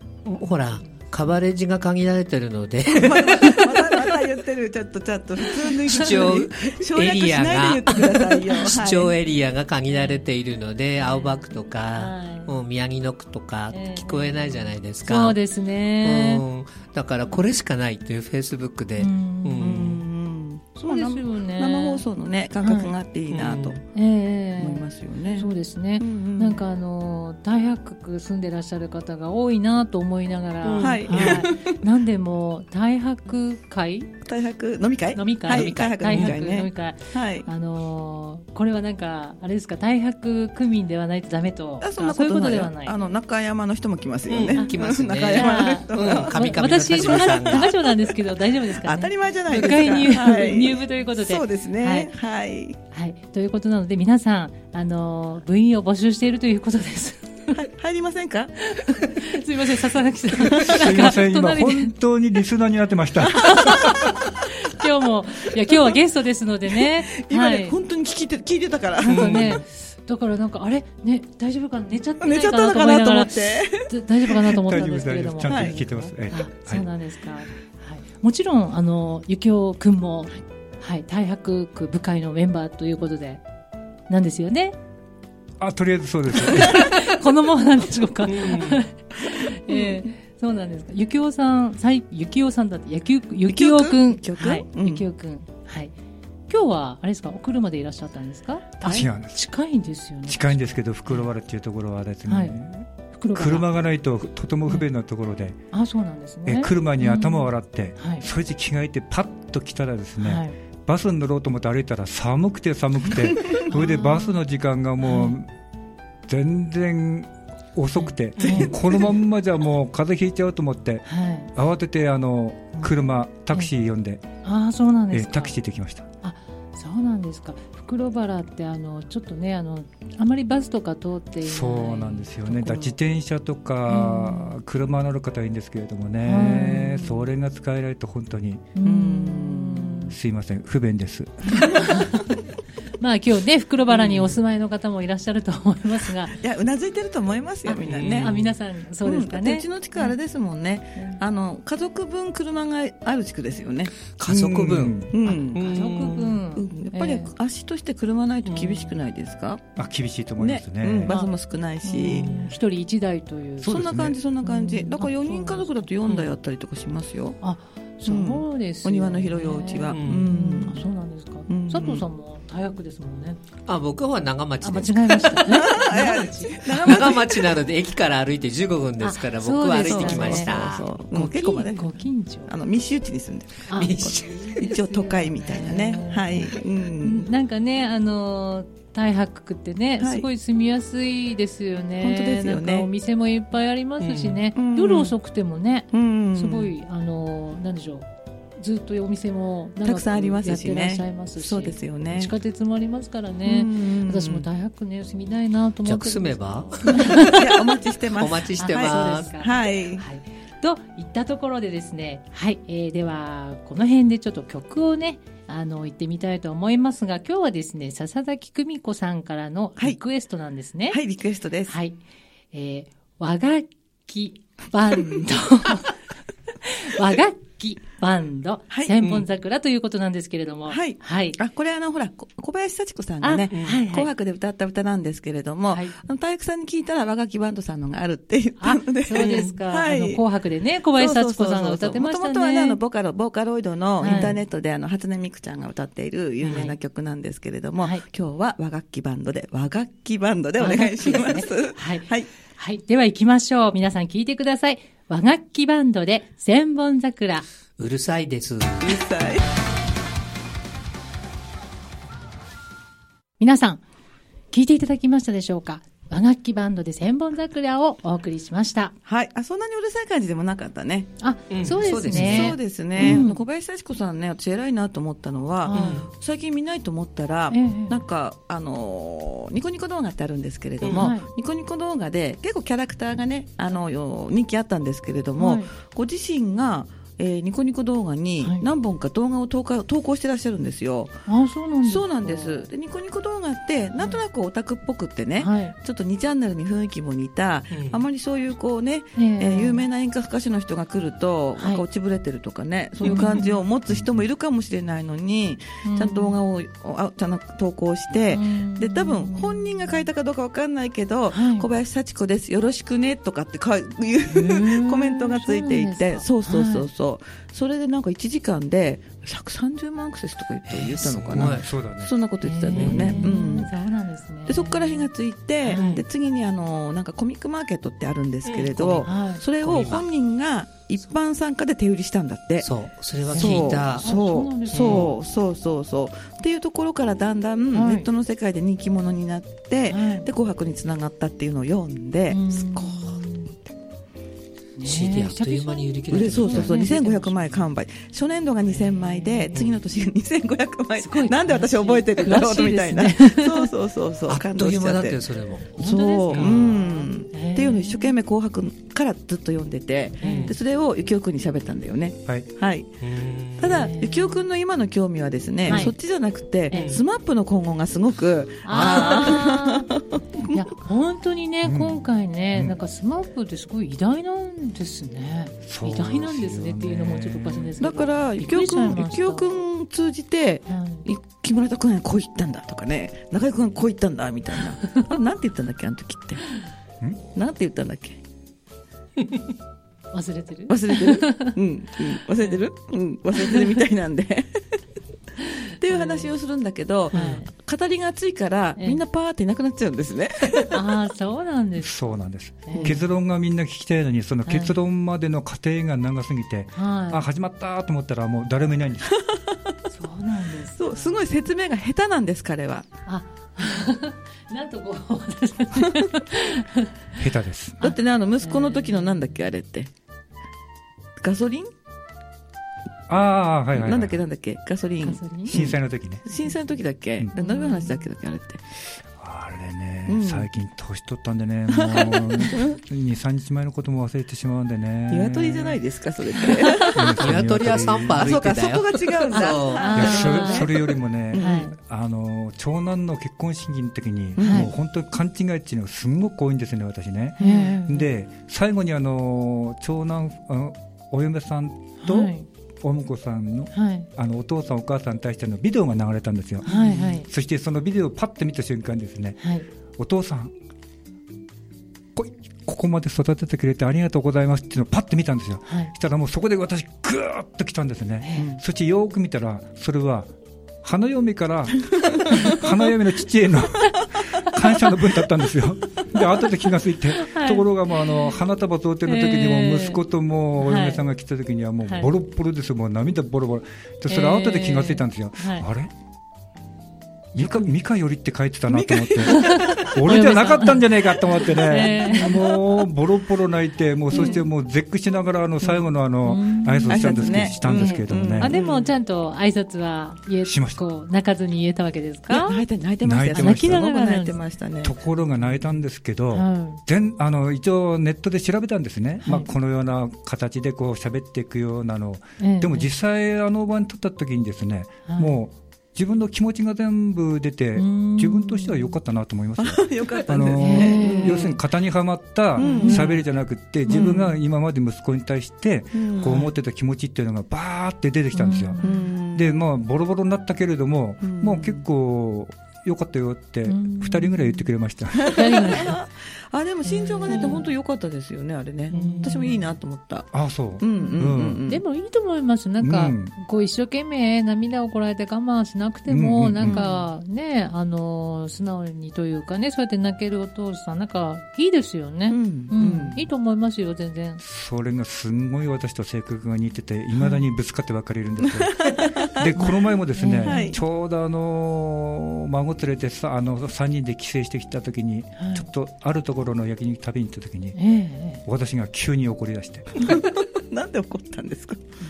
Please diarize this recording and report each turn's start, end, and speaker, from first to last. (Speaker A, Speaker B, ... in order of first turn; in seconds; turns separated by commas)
Speaker A: 0.2-4.2, Speaker B: 3.0-9.1, Speaker A: 5.5-15.4, Speaker C: 9.9-10.2, Speaker C: 11.0-12.5, Speaker C: 13.7-16.4, Speaker A: 16.0-20.0, Speaker C: 19.0-19.9, Speaker B: 19.6-23.8, Speaker C: 20.8-22.0, Speaker C: 22.6-22.9, Speaker A: 23.3-23.8, Speaker C: 23.9-34.1, Speaker B: 24.6-26.6, Speaker A: 30.6-31.4, Speaker B: 30.7-31.7, Speaker B: 34.2-37.5, Speaker C: 35.1-42.9, Speaker A: 36.0-36.4, Speaker B: 41.8-48.1, Speaker A: 44.3-47.8, Speaker C: 44.5-52.1, Speaker B: 48.7-52.8, Speaker C: 52.9-57.6, Speaker B: 57.5-58.5, Speaker C: 58.6-61.9, Speaker B: 60.4-60.8, Speaker D: 60.6-64.0, Speaker B: 63.3-64.0, Speaker C: 63.4-67.7, Speaker B: 66.8-69.6, Speaker C: 69.0-83.4, Speaker A: 69.1-69.6, Speaker B: 72.2-74.4, Speaker D: 74.5-76.8, Speaker B: 75.5-75.8, Speaker C: 84.1-84.8, Speaker D: 85.6-86.9, Speaker C: 86.4-95.9, Speaker A: 88.2-88.8, Speaker B: 89.7-90.0, Speaker B: 93.5-95.0, Speaker C: 96.5-101.3, Speaker D: 98.8-99.4, Speaker D: 100.2-105.6, Speaker C: 102.3-102.6, Speaker C: 103.1-103.7, Speaker C: 105.7-108.2, Speaker D: 106.4-115.5, Speaker C: 110.2-110.5, Speaker C: 113.7-114.4, Speaker C: 115.0-115.3, Speaker D: 116.3-124.2, Speaker C: 118.4-118.7, Speaker B: 118.5-118.7, Speaker C: 121.0-121.5, Speaker C: 124.4-125.5, Speaker D: 125.1-126.1, Speaker C: 126.2-133.0, Speaker D: 131.4-138.7, Speaker C: 133.9-134.6, Speaker C: 136.2-137.2, Speaker C: 138.7-140.1, Speaker B: 138.8-140.0, Speaker D: 140.1-141.7, Speaker C: 141.7-142.4, Speaker C: 143.0-146.3, Speaker B: 146.3-148.3, Speaker C: 147.7-150.2, Speaker A: 147.8-148.5, Speaker B: 149.0-153.9, Speaker A: 154.1-156.4, Speaker D: 154.2-155.1, Speaker B: 155.1-155.6, Speaker C: 155.2-157.3, Speaker B: 156.5-159.7, Speaker A: 158.4-159.0, Speaker D: 159.8-161.1, Speaker B: 160.4-162.3, Speaker C: 161.8-165.9, Speaker A: 162.0-162.5, Speaker D: 163.6-164.2, Speaker B: 163.6-167.4, Speaker C: 167.4-173.4, Speaker B: 168.0-170.9, Speaker A: 169.9-170.3, Speaker B: 171.5-172.0, Speaker A: 173.7-180.9, Speaker C: 174.6-177.0, Speaker B: 175.4-177.5, Speaker C: 179.0-180.6, Speaker B: 179.8-187.3, Speaker C: 181.1-182.5, Speaker C: 183.7-184.0, Speaker A: 183.7-184.8, Speaker C: 184.7-207.5, Speaker B: 190.0-190.3, Speaker B: 192.0-192.9, Speaker A: 194.0-194.4, Speaker B: 194.5-195.1, Speaker B: 195.9-196.7, Speaker B: 199.8-202.3, Speaker B: 203.4-204.5, Speaker A: 205.8-207.3, Speaker B: 207.2-210.0, Speaker A: 208.1-209.3, Speaker C: 208.6-221.0, Speaker B: 220.9-221.7, Speaker C: 221.7-222.0, Speaker C: 222.5-225.9, Speaker C: 226.6-231.4, Speaker B: 228.7-229.0, Speaker B: 230.7-240.2, Speaker C: 233.2-234.1, Speaker A: 233.5-233.8, Speaker C: 235.7-235.9, Speaker C: 238.6-242.8, Speaker A: 239.2-239.5, Speaker B: 240.9-252.3, Speaker C: 244.0-244.4, Speaker C: 246.4-246.8, Speaker C: 250.6-257.4, Speaker A: 257.8-259.0, Speaker B: 258.8-259.4, Speaker C: 263.4-263.8, Speaker C: 264.5-268.9, Speaker B: 269.0-271.1, Speaker C: 271.2-273.4, Speaker A: 271.5-273.2, Speaker B: 272.1-291.2, Speaker C: 275.6-276.1, Speaker A: 275.7-276.1, Speaker C: 277.5-278.0, Speaker A: 280.8-281.1, Speaker C: 280.9-281.3, Speaker C: 285.4-285.7, Speaker C: 291.3-292.7, Speaker B: 291.8-323.7, Speaker C: 295.4-295.7, Speaker A: 297.7-298.0, Speaker C: 299.1-299.8, Speaker C: 301.6-301.8, Speaker C: 303.0-303.6, Speaker A: 303.0-303.4, Speaker D: 303.9-304.2, Speaker C: 305.8-306.4, Speaker C: 308.3-310.0, Speaker C: 311.3-311.7, Speaker C: 314.3-316.9, Speaker A: 320.6-321.7, Speaker D: 321.3-322.1, Speaker C: 322.4-325.1, Speaker A: 322.7-323.3, Speaker B: 324.4-332.7, Speaker C: 325.6-326.0, Speaker A: 328.4-330.1, Speaker C: 329.0-329.4, Speaker A: 332.6-334.1, Speaker C: 333.3-335.1, Speaker B: 333.3-343.2, Speaker A: 334.7-335.1, Speaker C: 337.7-338.1, Speaker C: 339.9-340.3, Speaker C: 342.3-343.5, Speaker C: 344.8-347.6, Speaker A: 344.8-346.9, Speaker B: 346.1-355.2, Speaker C: 348.7-349.6, Speaker A: 349.5-349.8, Speaker C: 351.0-353.7, Speaker A: 354.3-355.7, Speaker B: 355.8-362.9, Speaker C: 355.8-358.1, Speaker A: 356.3-356.8, Speaker C: 360.2-360.5, Speaker A: 360.2-360.5, Speaker A: 363.0-363.8, Speaker B: 363.6-370.6, Speaker C: 363.6-364.4, Speaker C: 365.7-365.9, Speaker C: 366.7-367.0, Speaker A: 366.7-367.0, Speaker C: 368.6-369.9, Speaker A: 368.7-369.2, Speaker C: 370.5-379.6, Speaker D: 371.6-372.0, Speaker D: 375.6-377.8, Speaker B: 377.8-386.6, Speaker C: 380.7-381.0, Speaker B: 387.3-388.2, Speaker C: 390.1-391.6, Speaker B: 390.7-394.6, Speaker B: 395.8-400.8, Speaker C: 395.9-396.3, Speaker A: 397.1-397.4, Speaker C: 397.1-397.5, Speaker C: 398.8-399.0, Speaker C: 400.7-401.9, Speaker D: 401.8-409.2, Speaker C: 402.6-403.0, Speaker B: 402.7-403.0, Speaker C: 404.4-404.7, Speaker C: 406.7-407.2, Speaker B: 409.1-409.6, Speaker C: 409.9-411.2, Speaker B: 410.8-412.9, Speaker C: 413.1-416.9, Speaker B: 415.8-416.1, Speaker D: 417.2-417.8, Speaker B: 417.8-419.9, Speaker C: 417.8-419.2, Speaker B: 421.2-421.7, Speaker D: 423.1-424.2, Speaker B: 423.7-428.6, Speaker C: 425.0-425.6, Speaker D: 425.5-426.2, Speaker C: 427.4-428.1, Speaker D: 429.2-435.8, Speaker B: 430.1-430.5, Speaker B: 431.7-432.8, Speaker B: 435.1-437.1, Speaker D: 436.9-438.4, Speaker A: 437.2-440.5, Speaker B: 438.1-441.7, Speaker C: 439.3-440.7, Speaker D: 439.9-459.4, Speaker C: 441.3-441.8, Speaker B: 444.4-444.7, Speaker C: 444.4-444.7, Speaker B: 447.4-447.7, Speaker C: 447.4-448.1, Speaker C: 452.0-452.5, Speaker C: 453.7-454.1, Speaker C: 456.6-457.3, Speaker B: 456.7-457.0, Speaker C: 459.4-459.7, Speaker D: 460.0-460.5, Speaker D: 462.1-470.3, Speaker C: 465.7-465.9, Speaker C: 468.2-468.5, Speaker D: 470.8-485.9, Speaker C: 477.1-478.3, Speaker C: 479.1-480.0, Speaker C: 480.6-481.0, Speaker C: 481.8-482.1, Speaker C: 484.1-485.6, Speaker D: 487.3-498.6, Speaker B: 488.7-489.8, Speaker C: 489.2-492.3, Speaker B: 491.7-492.8, Speaker C: 494.1-494.4, Speaker B: 494.1-494.4, Speaker C: 496.2-502.6, Speaker B: 496.9-498.9, Speaker D: 500.4-500.8, Speaker B: 502.3-504.9, Speaker D: 503.0-503.9, Speaker C: 503.3-504.4, Speaker D: 504.8-528.8, Speaker C: 506.3-506.8, Speaker C: 509.2-509.5, Speaker C: 512.4-512.9, Speaker C: 515.0-515.4, Speaker C: 517.8-518.9, Speaker B: 519.6-521.6, Speaker C: 520.6-521.5, Speaker B: 522.6-523.1, Speaker C: 522.6-523.2, Speaker B: 523.9-524.4, Speaker B: 525.9-526.5, Speaker C: 528.3-529.1, Speaker B: 528.8-529.6, Speaker D: 529.3-535.4, Speaker B: 531.2-531.8, Speaker C: 533.6-534.7, Speaker B: 535.1-540.3, Speaker C: 535.3-536.0, Speaker C: 536.8-537.7, Speaker A: 538.9-539.4, Speaker C: 538.9-539.7, Speaker D: 540.3-541.6, Speaker B: 540.8-541.8, Speaker C: 540.9-554.4, Speaker D: 542.8-543.3, Speaker D: 546.1-546.8, Speaker B: 546.6-547.0, Speaker B: 552.3-553.3, Speaker D: 554.4-567.8, Speaker B: 558.5-559.4, Speaker C: 559.6-560.8, Speaker B: 560.4-560.8, Speaker C: 565.4-565.7, Speaker C: 567.8-568.4, Speaker D: 568.4-570.1, Speaker B: 570.0-571.8